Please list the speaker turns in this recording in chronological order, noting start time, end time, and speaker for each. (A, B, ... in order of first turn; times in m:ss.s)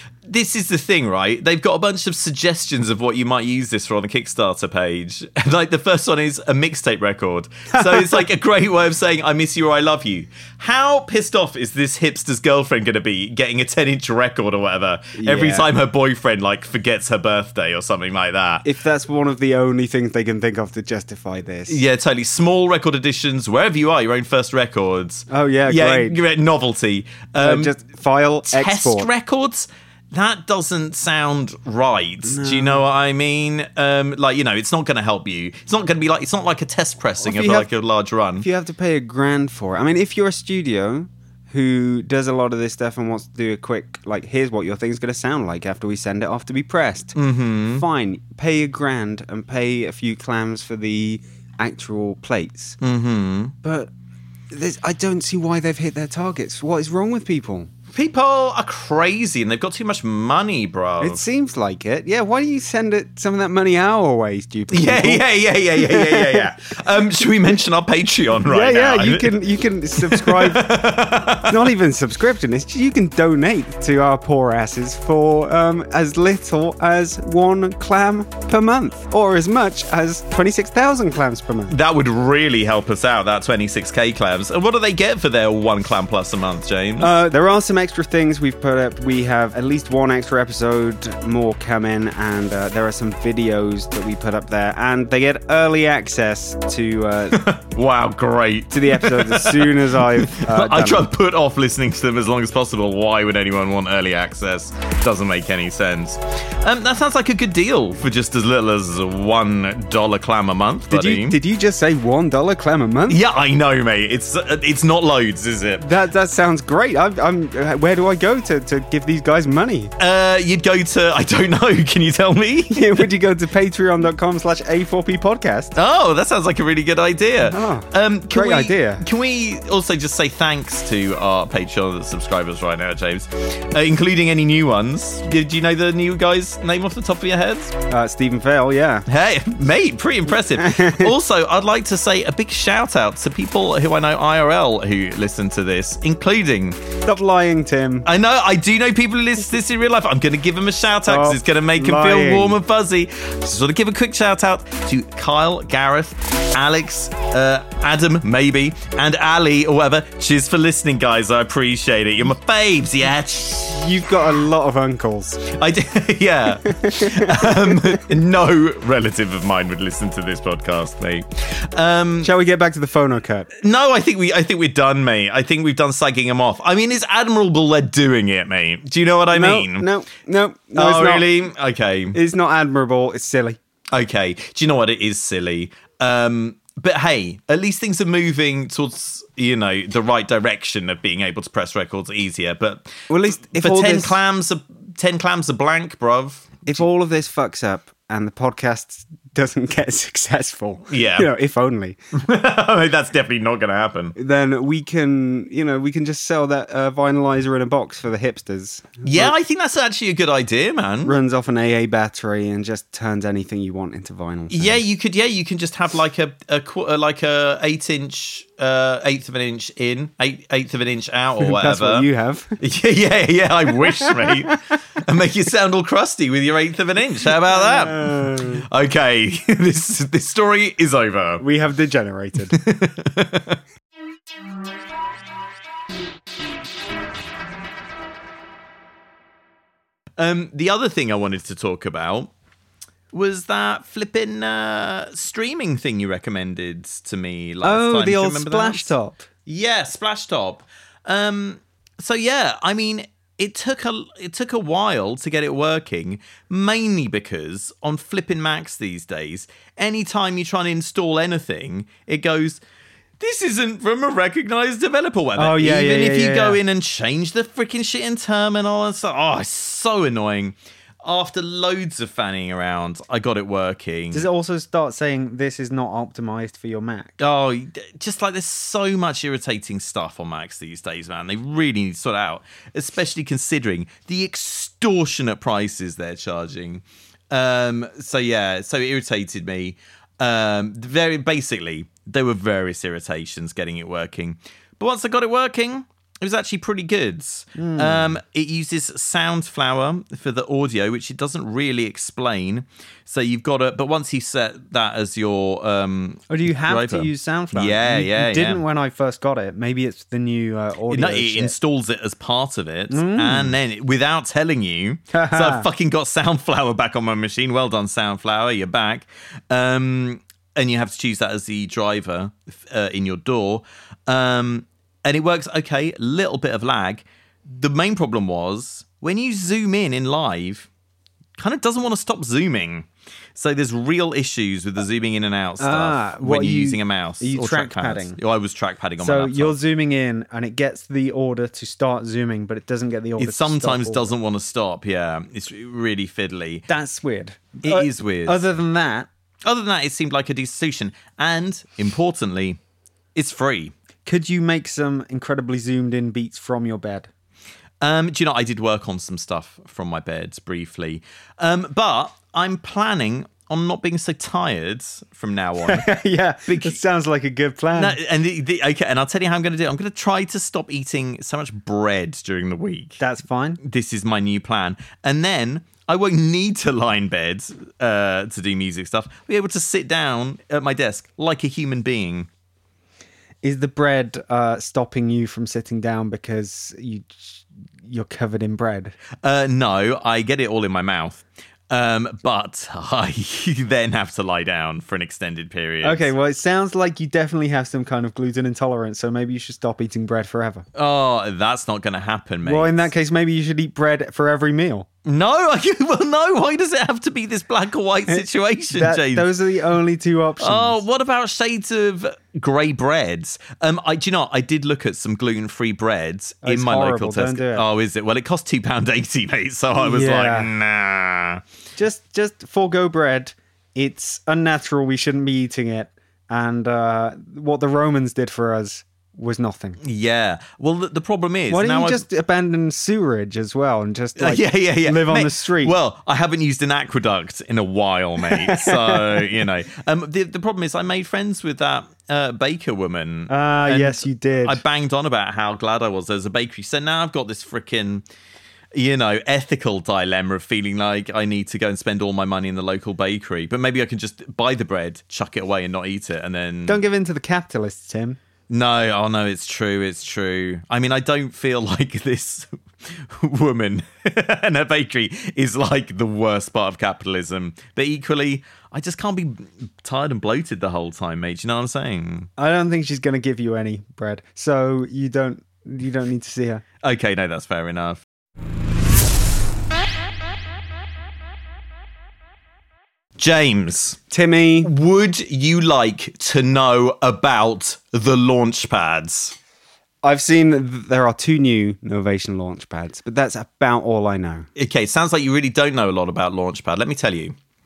0:00.2-0:18.6 A
0:07.7-0:08.2 B
0:15.2-0:15.6 B
0:18.6-0:21.8 B
0:21.7-0:27.8 A
0:25.3-0:26.2 B
0:27.4-0:29.1 B
0:28.4-0:38.4 A
0:32.2-0:32.8 B
0:37.2-0:37.7 B
0:38.4-0:47.2 B
0:47.2-0:47.8 A
0:47.7-0:52.8 B
0:52.8-0:53.5 A
0:53.6-0:53.9 B
0:54.5-0:57.7 B
0:57.9-1:01.2 A
1:01.0-1:06.5 B
1:04.7-1:09.4 A
1:08.4-1:10.8 B
1:10.0-1:11.7 A
1:11.4-1:21.8 B
1:21.7-1:27.1 A
1:27.0-1:37.4 B
1:37.3-1:51.4 A
1:38.7-1:41.1 B
1:50.9-1:53.2 B
1:53.1-1:55.8 A
1:55.8-1:59.9 B
2:00.0-2:03.0 A
2:02.7-2:05.7 B
2:05.8-2:17.7 A
2:07.5-2:09.0 B
2:17.9-2:19.0 B
2:19.1-2:26.8 A
2:20.5-2:21.1 B
2:27.0-2:28.0 B
2:28.0-2:43.8 A
2:31.1-2:32.6 B
2:43.4-2:45.5 B
2:45.5-2:52.3 A
2:46.7-2:48.0 B
2:52.2-2:53.5 B
2:53.6-2:59.8 A
2:59.3-3:01.3 B
3:00.8-3:02.2 A
3:02.1-3:03.6 B
3:03.9-3:16.8 A
3:13.1-3:14.2 B
3:16.6-3:22.0 B
3:20.9-3:21.3 A
3:22.1-3:24.1 A
3:24.2-3:29.3 B
3:29.0-3:31.2 A
3:31.0-3:34.8 B
3:34.5-3:42.1 A
3:41.4-3:42.6 B
3:42.6-3:51.4 A
3:44.0-3:44.6 B
3:47.4-3:48.6 B
3:51.4-3:52.6 B
3:52.5-3:53.6 A
4:00.2-4:02.3 A
4:03.1-4:08.9 A
4:07.6-4:09.3 B
4:09.4-4:22.6 A
4:23.2-4:34.2 A
4:25.4-4:26.6 B
4:34.1-4:37.1 B
4:37.2-5:08.6 A
4:57.6-4:58.2 B
5:06.3-5:11.5 B
5:10.9-5:30.7 A
5:12.9-5:13.6 B
5:15.1-5:15.7 B
5:31.4-5:39.5 A
5:35.6-5:38.2 B
5:39.0-5:44.1 B
5:43.2-5:46.6 A
5:46.7-5:49.1 B
5:47.6-5:48.4 A
5:49.4-5:52.6 A
5:53.1-5:53.7 A
5:54.0-5:57.1 B
5:57.8-6:05.9 A
6:05.6-6:08.0 B
6:06.5-6:06.8 A
6:07.8-6:13.0 A
6:13.0-6:13.6 B
6:13.6-6:22.3 A
6:23.4-6:28.9 B
6:29.2-6:36.1 A
6:35.8-6:40.6 B
6:40.8-6:42.9 A
6:42.4-6:44.8 B
6:45.0-6:49.3 A
6:48.1-6:50.8 B
6:50.4-7:01.4 A
6:56.4-6:57.6 B
6:59.8-7:00.5 B
7:01.8-7:09.8 B
7:09.8-7:12.0 A
7:11.5-7:15.7 B
7:14.2-7:28.0 A
7:18.2-7:19.2 B
7:23.3-7:24.6 B
7:28.7-7:36.8 A
7:36.7-7:38.2 B
7:38.5-7:52.3 A
7:52.4-7:56.6 B
7:56.8-7:58.0 A
8:03.2-8:04.0 A
8:04.1-8:04.7 B
8:04.6-8:09.3 A
8:10.0-8:14.5 B
8:14.6-8:17.3 A